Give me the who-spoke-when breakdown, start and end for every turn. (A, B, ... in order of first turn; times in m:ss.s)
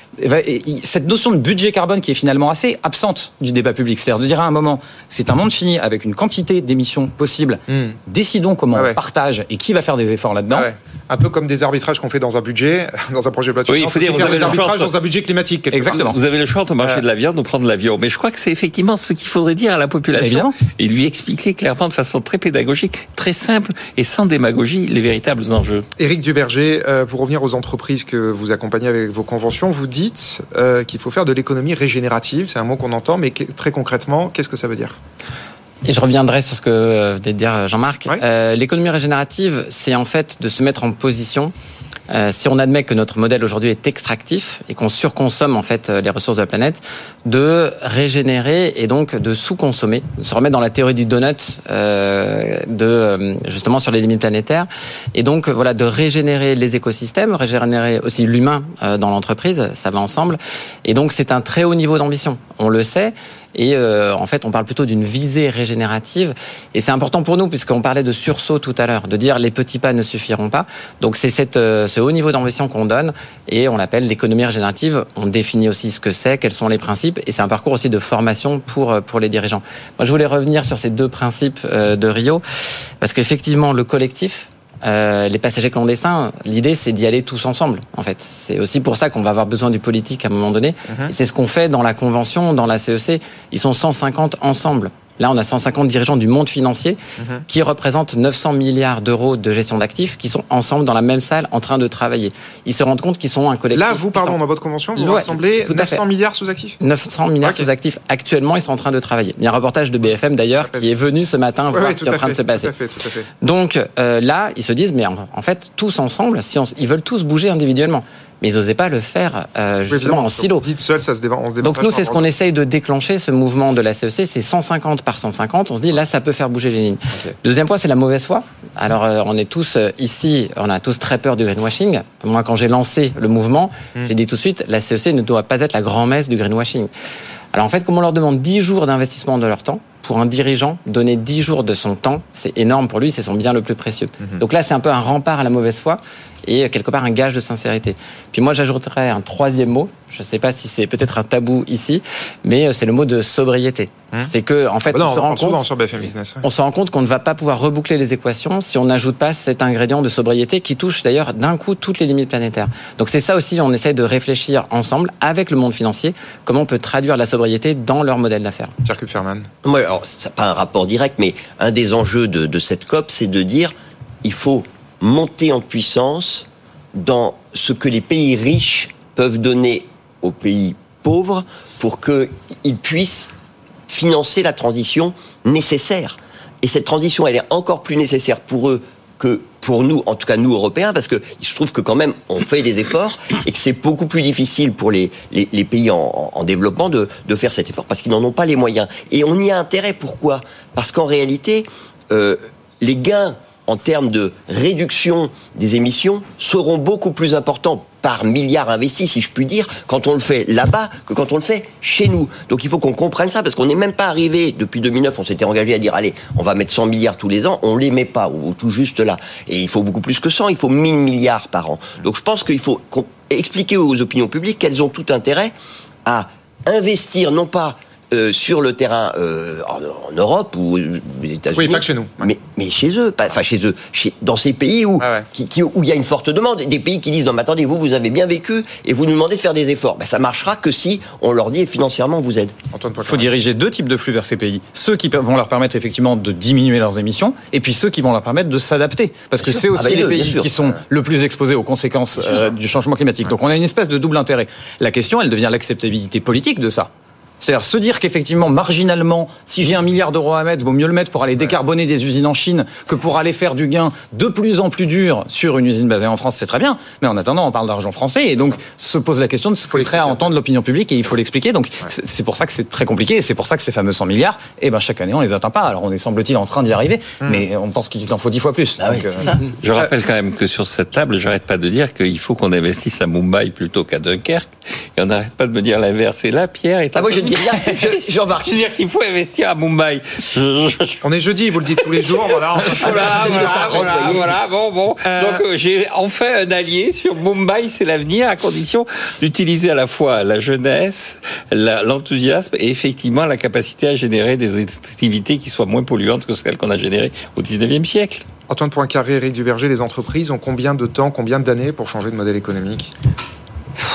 0:00.2-0:10.7 A
0:07.7-0:08.0 B
0:08.7-0:09.0 B
0:10.5-0:16.1 B
0:13.7-0:14.9 C
0:15.7-0:16.1 A
0:16.0-0:25.9 C
0:20.2-0:20.6 A
0:26.0-0:35.0 B
0:35.8-0:41.5 D
0:42.1-1:22.4 D
1:23.0-1:44.4 D
1:43.7-1:46.8 B
1:44.9-1:46.0 D
1:46.8-1:52.7 D
1:51.7-1:53.3 B
1:53.4-2:00.7 D
1:59.9-2:02.2 B
2:01.6-2:16.9 D
2:17.5-2:48.7 D
2:34.9-2:36.4 B
2:48.8-2:49.5 B
2:49.6-3:03.3 E
3:03.9-3:45.5 E
3:46.0-4:02.6 E
3:51.5-3:52.3 B
3:55.0-3:55.2 B
4:02.7-4:03.3 B
4:03.0-4:39.3 A
4:09.5-4:10.7 E
4:29.7-4:30.3 B
4:37.2-4:37.4 B
4:38.8-4:39.4 E
4:39.6-4:51.0 C
4:46.9-4:48.6 E
4:51.0-4:54.1 B
4:51.8-5:08.2 C
4:52.8-4:54.3 E
4:55.0-4:55.4 B
5:08.5-5:12.9 B